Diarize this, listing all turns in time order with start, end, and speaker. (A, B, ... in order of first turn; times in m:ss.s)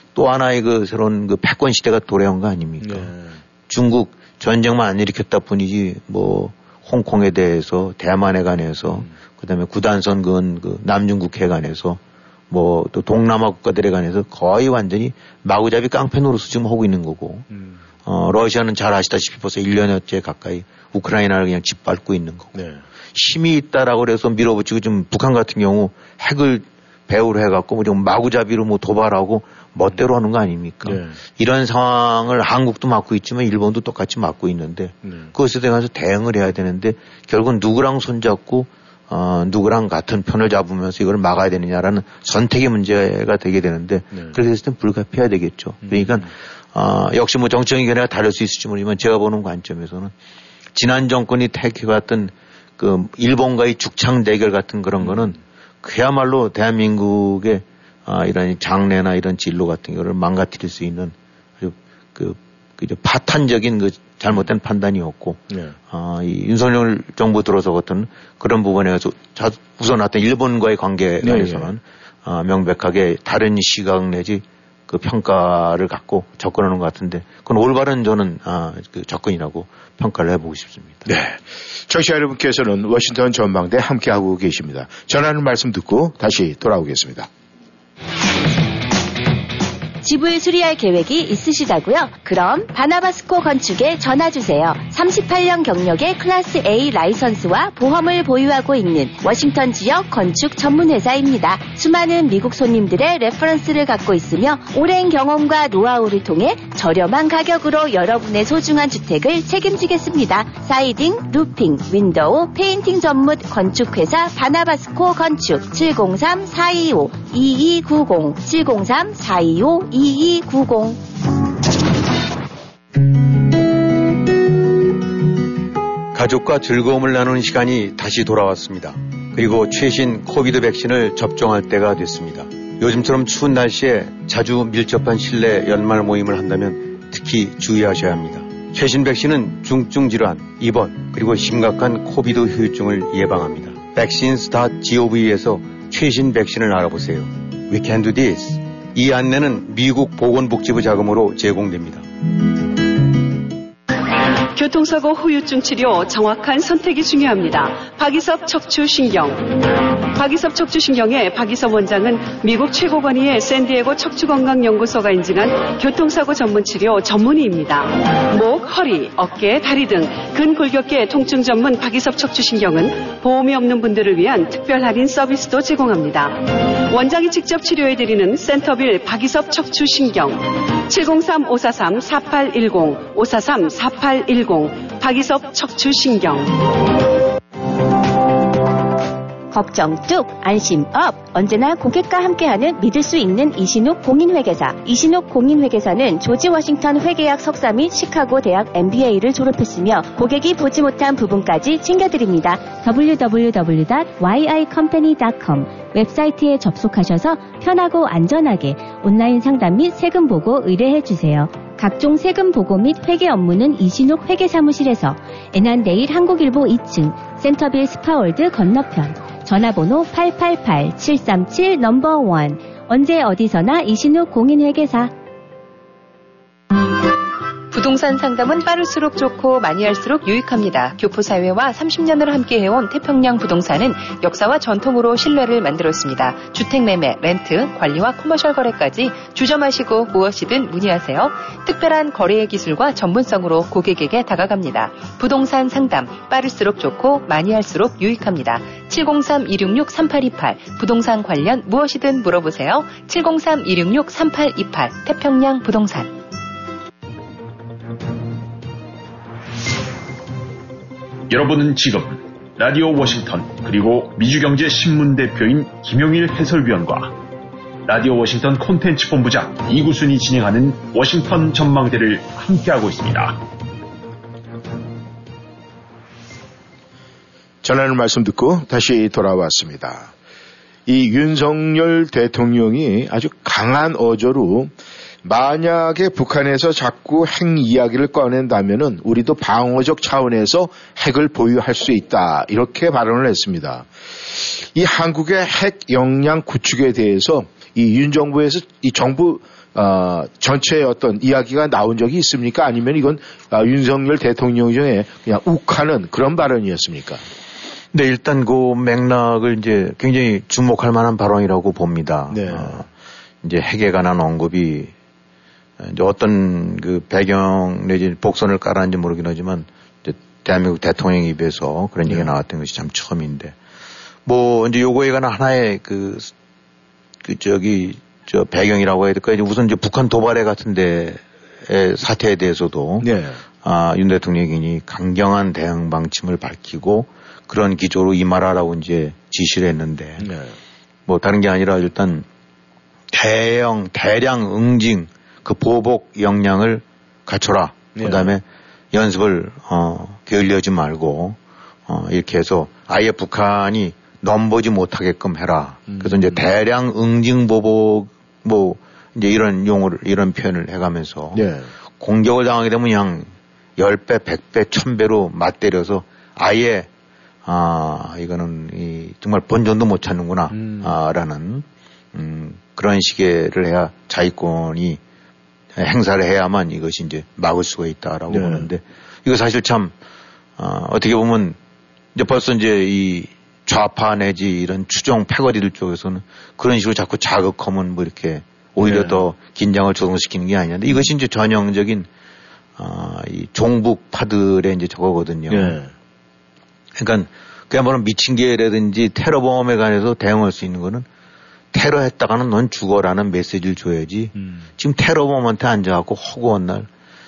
0:00.1-0:03.1 A
0:02.8-0:03.4 B
0:03.7-0:17.4 A
0:08.9-0:09.1 B
0:17.5-0:17.8 B
0:18.0-0:22.5 A
0:22.5-0:22.8 B
0:23.1-0:50.1 A
0:30.8-0:31.2 B
0:35.0-0:35.3 B
0:44.1-0:44.4 B
0:45.8-0:46.3 B
0:50.7-1:21.1 A
0:55.0-0:55.4 B
1:05.5-1:05.8 B
1:11.2-1:11.7 B
1:21.0-1:27.3 B
1:30.0-2:01.0 C
2:06.1-2:32.0 A
2:34.5-2:39.6 D
2:40.1-3:06.6 D
3:09.5-3:45.1 C
3:47.7-4:16.1 E
4:21.3-4:27.1 F
4:27.8-4:33.4 F
4:37.6-4:40.1 B
4:40.9-4:44.7 B
4:45.2-5:07.2 B
5:07.9-5:12.9 A
5:12.3-5:12.8 B
5:13.4-5:14.9 A
5:15.8-5:23.6 A
5:22.0-5:22.3 B
5:24.2-5:26.3 A
5:27.2-5:33.1 A
5:33.0-5:33.4 B
5:33.6-5:40.3 A
5:40.2-5:40.6 B
5:41.0-5:42.2 A
5:43.1-6:01.4 A
5:47.9-5:48.3 B
5:55.9-5:56.4 B
6:01.3-6:01.7 B
6:02.0-6:06.9 A
6:07.4-6:15.0 A
6:10.5-6:10.9 B
6:15.8-6:19.9 A
6:18.3-6:18.7 B
6:20.6-6:21.6 A
6:22.1-6:32.1 A
6:28.8-6:29.2 B
6:32.8-6:35.8 A
6:35.5-6:35.9 B
6:37.0-6:41.0 A
6:41.7-6:46.9 A
6:44.4-6:44.6 B